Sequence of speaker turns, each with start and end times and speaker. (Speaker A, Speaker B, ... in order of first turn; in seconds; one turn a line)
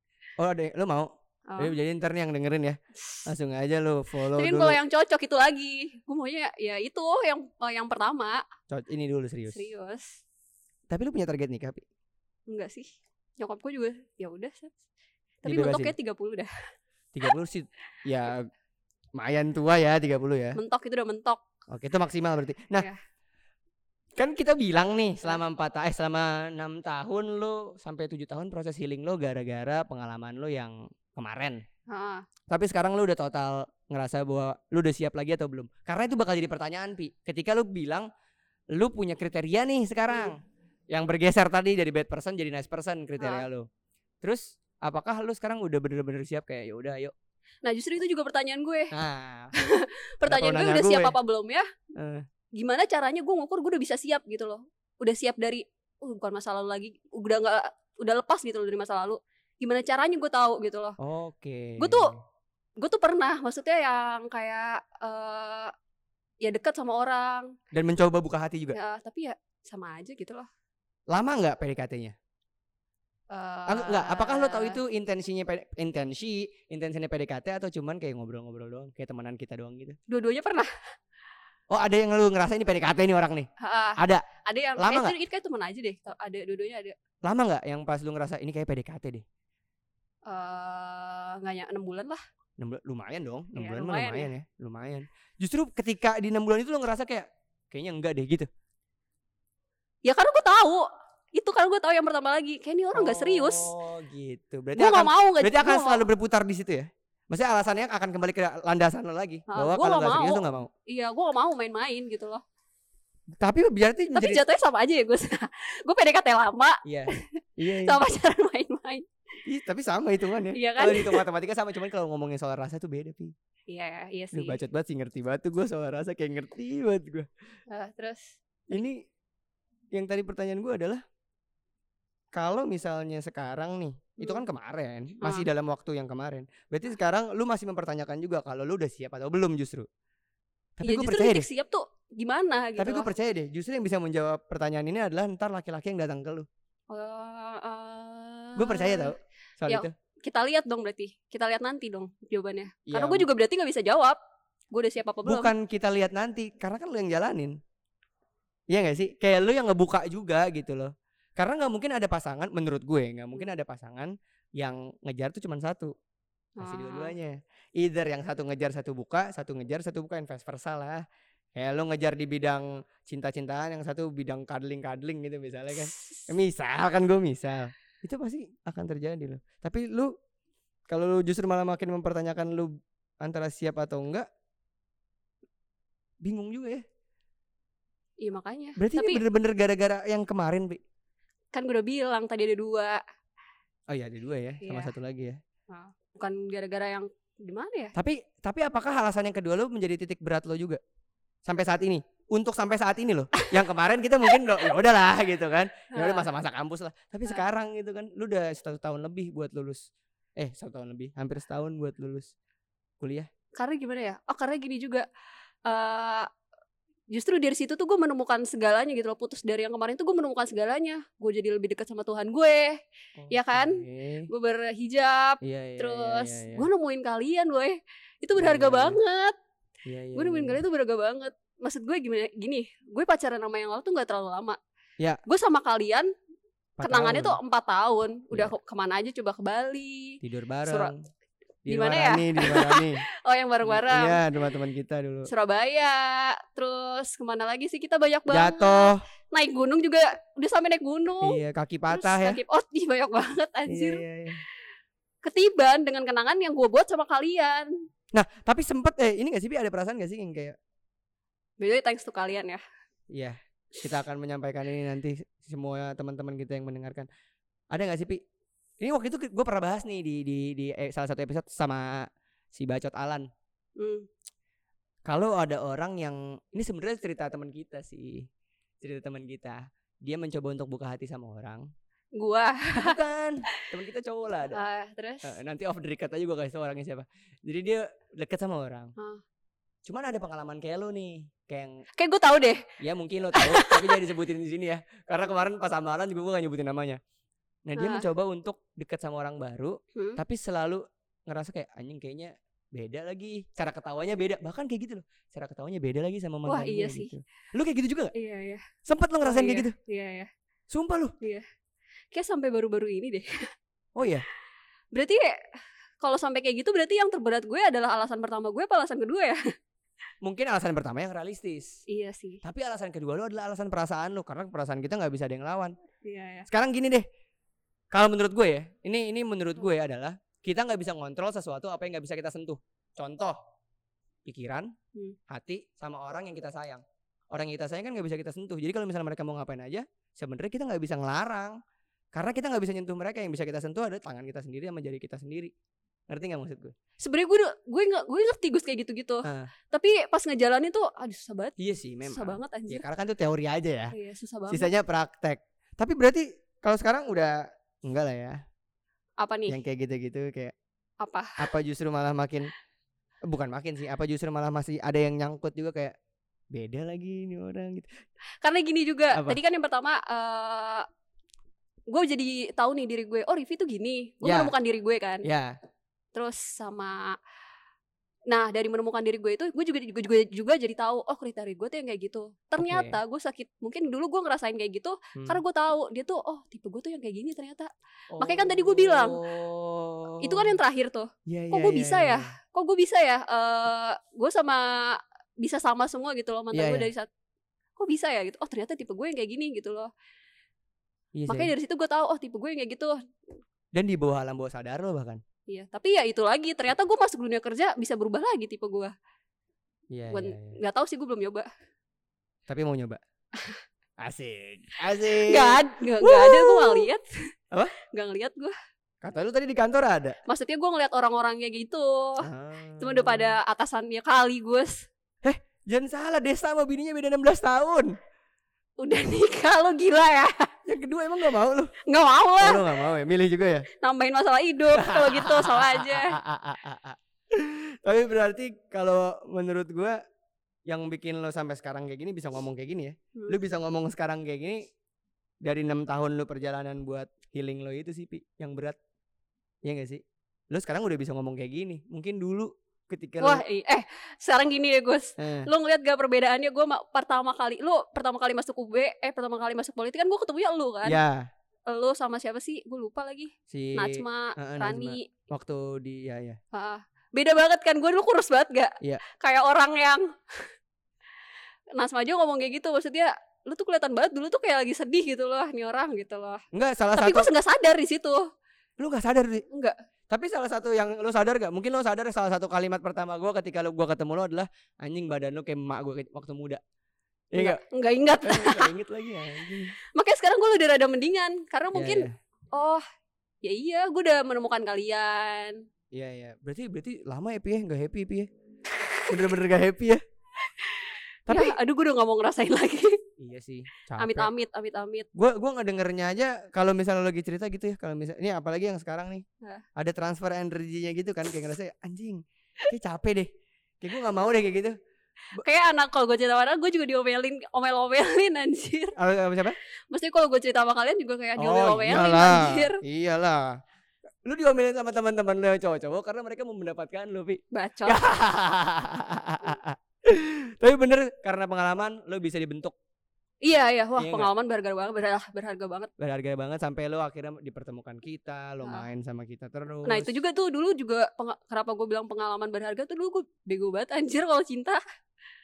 Speaker A: 0.4-4.8
Speaker B: 1.5-1.8
Speaker B: 4.3-8.4
Speaker A: 8.7-9.7
Speaker B: 9.5-10.2
Speaker A: 10.9-11.8
Speaker B: 12.5-14.8
Speaker B: 15.4-16.5
Speaker A: 15.5-15.9
Speaker A: 17.1-18.5
Speaker A: 19.2-20.6
Speaker B: 20.6-21.4
Speaker A: 21.7-22.9
Speaker A: 24.2-31.6
Speaker B: 31.9-32.2
Speaker A: 32.5-38.1
Speaker A: 38.7-40.4
Speaker A: 40.9-43.7
Speaker B: 43.2-43.5
Speaker A: 44.2-47.1
Speaker B: 47.6-48.9
Speaker A: 48.9-49.5
Speaker B: 49.6-51.6
Speaker A: 50.2-51.2
Speaker A: 52.0-52.2
Speaker B: 52.6-61.0
Speaker A: 61.0-62.2
Speaker B: 61.8-62.1
Speaker B: 62.8-65.7
Speaker B: 66.4-67.5
Speaker A: 67.7-68.8
Speaker B: 68.7-70.5
Speaker A: 71.1-72.2
Speaker B: 73.3-74.8
Speaker A: 73.7-80.0
Speaker B: 80.1-80.7
Speaker A: 81.7-84.3
Speaker B: 83.6-87.0
Speaker A: 84.8-85.2
Speaker A: 87.2-89.2
Speaker B: 90.3-92.2
Speaker A: 92.6-98.5
Speaker B: 93.6-94.3
Speaker B: 100.0-103.7
Speaker A: 102.9-110.7
Speaker B: 104.8-106.0
Speaker B: 109.5-112.4
Speaker A: 113.4-114.4
Speaker B: 114.2-119.1
Speaker A: 116.8-118.0
Speaker A: 119.5-123.3
Speaker B: 120.5-121.2
Speaker B: 123.7-124.6
Speaker A: 124.3-127.3
Speaker B: 127.7-128.4
Speaker A: 128.7-129.0
Speaker A: 129.9-131.0
Speaker A: 132.3-139.9
Speaker B: 135.2-135.5
Speaker A: 140.8-141.5
Speaker B: 140.8-143.1
Speaker A: 142.8-146.5
Speaker B: 146.9-149.1
Speaker A: 148.6-149.9
Speaker B: 149.7-154.2
Speaker A: 152.9-153.3
Speaker B: 154.7-155.5
Speaker A: 155.2-157.6
Speaker A: 158.7-165.9
Speaker B: 166.6-167.1
Speaker A: 166.6-171.0
Speaker A: 171.6-180.1
Speaker B: 175.9-176.3
Speaker A: 180.9-184.3
Speaker A: 186.2-186.8
Speaker B: 188.2-189.2
Speaker A: 188.8-190.8
Speaker B: 191.5-193.0
Speaker A: 193.9-195.4
Speaker B: 194.6-194.9
Speaker B: 195.7-197.9
Speaker A: 198.0-200.8
Speaker A: 201.5-209.9
Speaker B: 205.9-206.3
Speaker A: 210.4-212.3
Speaker A: 213.0-213.3
Speaker B: 213.6-215.1
Speaker B: 215.7-216.3
Speaker B: 217.1-222.8
Speaker A: 223.2-224.3
Speaker B: 223.3-229.3
Speaker A: 225.4-226.7
Speaker A: 228.4-229.0
Speaker A: 229.8-230.6
Speaker B: 230.2-234.6
Speaker B: 235.3-236.1
Speaker A: 236.8-237.4
Speaker B: 236.8-240.9
Speaker A: 240.2-241.0
Speaker A: 241.7-243.0
Speaker B: 241.7-244.2
Speaker A: 243.7-245.3
Speaker B: 245.3-254.0
Speaker A: 248.3-249.0
Speaker A: 251.2-252.4
Speaker A: 253.7-254.4
Speaker B: 255.2-257.7
Speaker A: 258.1-260.6
Speaker B: 261.6-262.6
Speaker A: 263.1-267.1
Speaker A: 267.7-268.2
Speaker A: 268.8-273.3
Speaker B: 273.8-274.1
Speaker A: 275.1-278.3
Speaker A: 278.8-281.7
Speaker B: 282.2-283.0
Speaker A: 282.8-284.6
Speaker B: 284.5-285.4
Speaker A: 285.2-288.9
Speaker A: 289.9-291.8
Speaker B: 292.0-292.7
Speaker A: 292.8-297.0
Speaker B: 293.3-294.0
Speaker A: 297.7-308.1
Speaker B: 297.8-298.1
Speaker B: 299.9-300.2
Speaker B: 306.5-307.1
Speaker B: 308.1-308.6
Speaker A: 308.9-309.8
Speaker B: 309.2-310.3
Speaker A: 310.7-311.1
Speaker B: 312.1-313.3
Speaker A: 314.0-314.3
Speaker B: 314.9-315.4
Speaker B: 316.0-319.4
Speaker A: 320.2-321.8
Speaker B: 321.9-322.4
Speaker A: 322.4-325.8
Speaker B: 326.0-326.5
Speaker A: 326.5-327.1
Speaker A: 327.9-333.4
Speaker A: 334.3-334.7
Speaker A: 335.3-341.6
Speaker A: 342.1-345.5
Speaker A: 346.1-346.8
Speaker B: 347.0-352.8
Speaker A: 349.2-349.5
Speaker A: 351.6-353.9
Speaker B: 353.9-354.7
Speaker A: 354.5-358.4
Speaker B: 359.2-359.6
Speaker A: 359.5-360.5
Speaker B: 361.0-361.5
Speaker A: 361.4-362.5
Speaker A: 363.3-365.9
Speaker A: 366.5-367.9
Speaker B: 368.4-370.9
Speaker A: 369.1-369.4
Speaker B: 371.9-375.3
Speaker A: 374.2-374.5
Speaker A: 375.2-375.6
Speaker B: 376.1-377.2
Speaker B: 378.3-389.2
Speaker A: 382.6-383.0
Speaker A: 385.1-385.4
Speaker A: 388.1-390.6
Speaker B: 390.2-397.1
Speaker A: 391.3-392.3
Speaker A: 396.5-396.9
Speaker B: 397.8-399.9
Speaker A: 401.1-401.5
Speaker B: 401.3-403.0
Speaker A: 403.7-405.2
Speaker B: 405.5-408.9
Speaker A: 409.9-410.6
Speaker B: 410.1-411.5
Speaker A: 412.5-413.0
Speaker A: 414.0-416.9
Speaker B: 415.1-417.1
Speaker B: 417.8-418.5
Speaker A: 419.0-420.2
Speaker B: 420.3-422.3
Speaker A: 422.2-423.4
Speaker B: 422.8-424.9
Speaker A: 425.2-427.9
Speaker B: 428.8-430.5
Speaker A: 430.7-431.7
Speaker B: 431.9-432.7
Speaker A: 432.4-433.7
Speaker B: 433.8-436.2
Speaker A: 434.7-440.0
Speaker A: 440.7-444.6
Speaker A: 445.4-448.8
Speaker A: 449.6-453.4
Speaker B: 453.2-461.0
Speaker A: 455.2-455.5
Speaker A: 460.9-461.3
Speaker B: 461.7-465.1
Speaker A: 463.5-466.4
Speaker B: 466.5-470.5
Speaker B: 471.8-476.4
Speaker A: 476.5-477.3
Speaker B: 476.9-478.3
Speaker A: 478.8-479.4
Speaker B: 479.5-479.8
Speaker A: 480.1-486.6
Speaker A: 487.3-487.6
Speaker B: 487.4-488.7
Speaker A: 488.2-489.7
Speaker B: 489.9-492.8
Speaker A: 491.7-492.1
Speaker B: 493.4-495.6
Speaker A: 495.9-498.3
Speaker A: 499.1-500.0
Speaker B: 500.4-503.0
Speaker A: 501.3-501.6
Speaker A: 503.2-504.3
Speaker B: 504.0-505.1
Speaker A: 505.1-509.2
Speaker A: 509.8-513.3
Speaker A: 513.8-514.8
Speaker B: 515.3-519.0
Speaker A: 519.0-519.6
Speaker B: 519.9-522.8
Speaker A: 521.4-523.6
Speaker A: 524.2-532.8
Speaker B: 527.5-528.0
Speaker B: 533.4-535.9
Speaker A: 534.0-534.3
Speaker A: 536.0-540.1
Speaker B: 538.6-538.9
Speaker B: 539.9-544.8